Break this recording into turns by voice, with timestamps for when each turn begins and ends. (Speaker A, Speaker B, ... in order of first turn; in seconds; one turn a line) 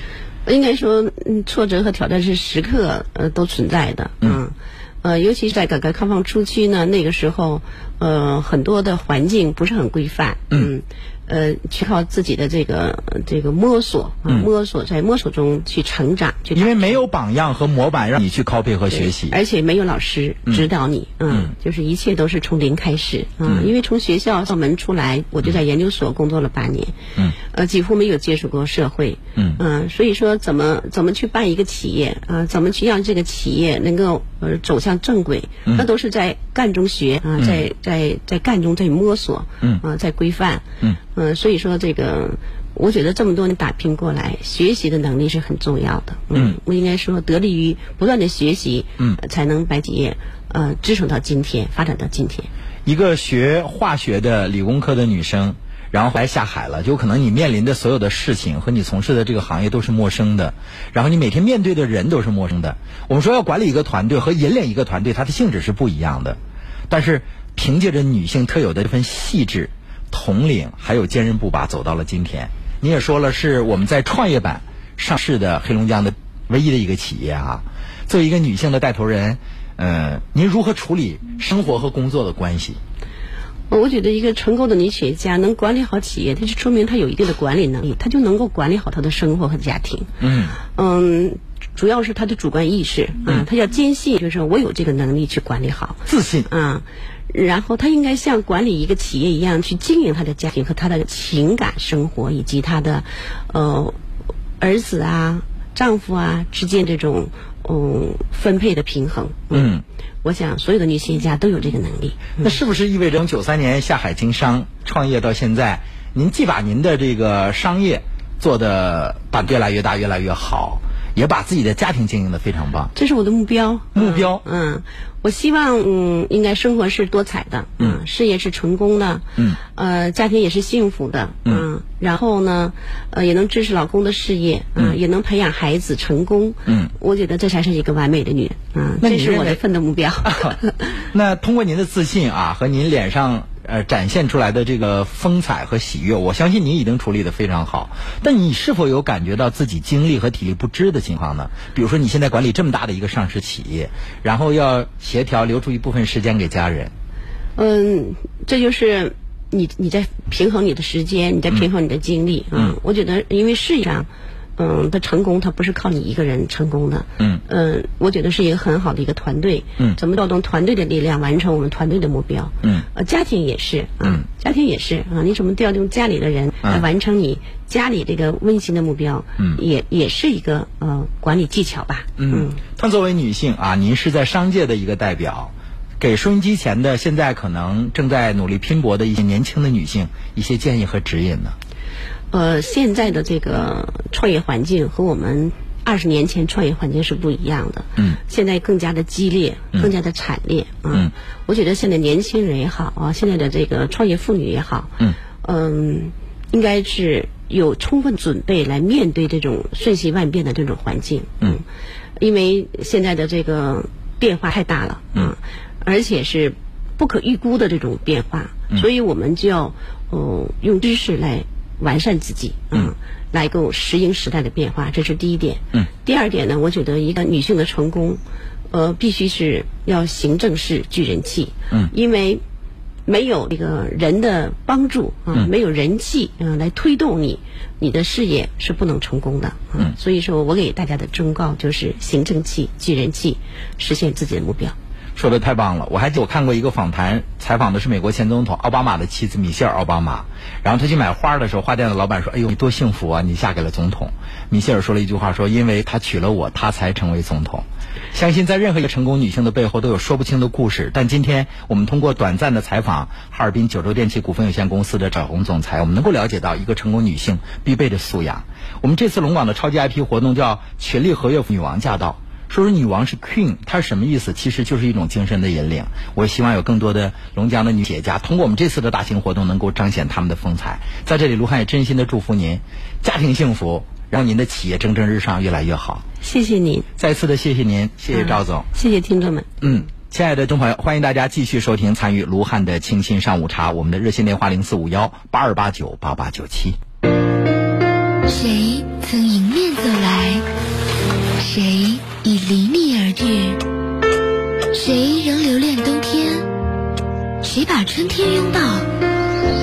Speaker A: 0.5-17.0
Speaker B: 16.5-19.4
Speaker A: 18.9-52.5
Speaker B: 29.4-29.6
Speaker B: 37.4-37.6
Speaker B: 52.9-66.4
Speaker B: 66.9-82.8
Speaker A: 83.7-104.0
Speaker B: 90.2-90.5
Speaker B: 96.1-96.5
Speaker A: 104.6-109.7
Speaker B: 109.5-109.8
Speaker A: 110.2-112.5
Speaker B: 112.4-122.9
Speaker A: 122.9-140.9
Speaker B: 123.9-124.4
Speaker B: 139.0-139.6
Speaker B: 140.2-140.5
Speaker B: 141.1-156.9
Speaker A: 157.6-182.6
Speaker B: 182.2-191.6
Speaker A: 192.3-211.6
Speaker A: 212.2-232.4
Speaker A: 233.1-244.7
Speaker B: 245.2-286.1
Speaker A: 286.2-286.9
Speaker B: 287.0-288.7
Speaker A: 288.1-289.5
Speaker B: 289.6-296.8
Speaker C: 298.2-300.4
Speaker C: 301.4-303.6
Speaker C: 304.7-306.5
Speaker C: 307.4-308.9